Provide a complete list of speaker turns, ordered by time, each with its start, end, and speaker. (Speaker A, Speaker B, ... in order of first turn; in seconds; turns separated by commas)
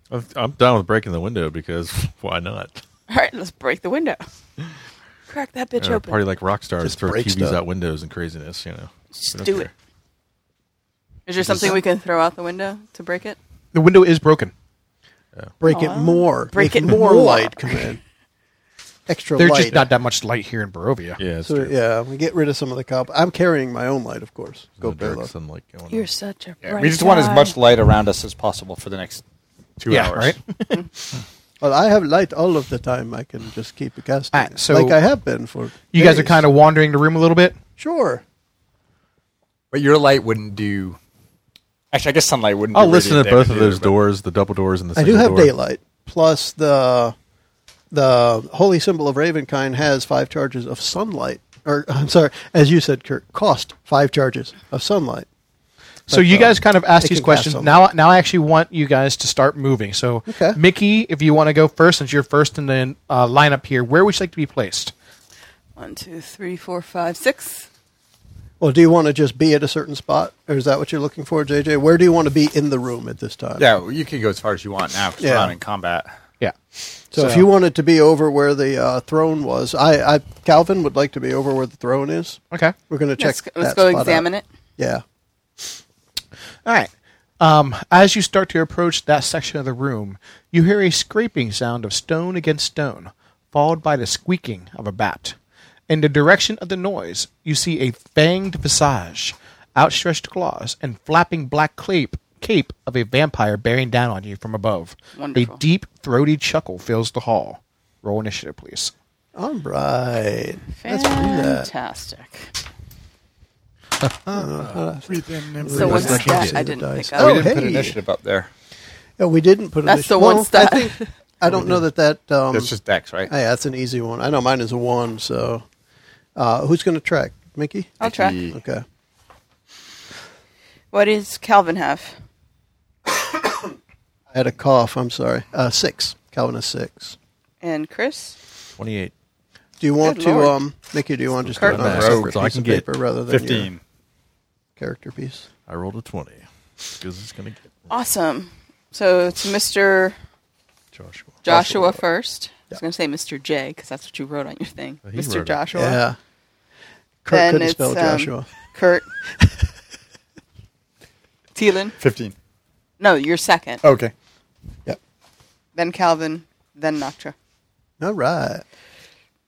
Speaker A: 0.1-2.8, Speaker B: 3.1-4.2, Speaker B: 5.3-6.2, Speaker A: 5.8-9.7, Speaker C: 6.8-7.6, Speaker B: 9.1-9.7, Speaker B: 11.3-13.4, Speaker A: 11.4-11.7, Speaker D: 13.7-14.5, Speaker C: 15.6-18.0, Speaker B: 15.6-17.9, Speaker C: 19.1-19.9, Speaker D: 19.4-21.2, Speaker A: 21.2-21.7, Speaker C: 21.4-25.3, Speaker A: 24.8-26.1, Speaker B: 25.9-27.6, Speaker E: 26.6-29.2, Speaker E: 29.8-30.4, Speaker D: 29.9-30.8, Speaker C: 31.6-36.4, Speaker D: 34.3-35.0, Speaker D: 35.9-37.6, Speaker C: 37.8-38.2, Speaker E: 39.7-41.0, Speaker E: 41.9-43.9, Speaker A: 42.7-45.5, Speaker C: 45.0-47.1, Speaker C: 47.9-55.3, Speaker C: 56.1-57.8, Speaker D: 56.1-64.9, Speaker C: 60.3-60.6, Speaker B: 65.8-67.7, Speaker C: 68.6-73.7, Speaker E: 73.6-76.1, Speaker C: 75.2-75.5, Speaker C: 77.1-84.3, Speaker D: 77.1-77.5, Speaker B: 83.2-84.4, Speaker C: 84.8-85.0, Speaker D: 86.6-95.3, Speaker D: 95.9-108.9, Speaker B: 105.2-105.6, Speaker C: 109.3-111.7, Speaker B: 110.8-112.5, Speaker C: 114.3-118.0, Speaker E: 115.1-116.3, Speaker B: 115.7-117.5, Speaker A: 115.7-116.6, Speaker E: 117.2-118.5, Speaker C: 119.2-122.7, Speaker B: 119.8-121.1, Speaker E: 122.5-123.3, Speaker C: 123.3-125.6, Speaker C: 126.3-128.8, Speaker B: 128.0-128.4, Speaker E: 128.0-128.6, Speaker B: 130.9-132.1, Speaker C: 134.3-137.2, Speaker B: 137.6-138.3, Speaker A: 138.8-139.1, Speaker C: 139.8-143.7, Speaker B: 140.0-140.6, Speaker A: 141.4-142.8, Speaker E: 141.7-142.4, Speaker E: 143.3-143.8, Speaker C: 144.8-145.4, Speaker A: 145.7-146.4, Speaker A: 147.0-147.6, Speaker B: 147.9-150.2, Speaker A: 150.9-151.4, Speaker B: 151.4-156.0, Speaker C: 151.5-152.0, Speaker A: 155.1-155.6, Speaker C: 155.7-156.2, Speaker C: 157.2-158.5, Speaker B: 157.3-159.1, Speaker B: 161.5-161.9, Speaker E: 162.0-162.3, Speaker B: 163.0-163.8, Speaker E: 163.8-164.1, Speaker B: 165.8-167.3, Speaker C: 168.0-168.6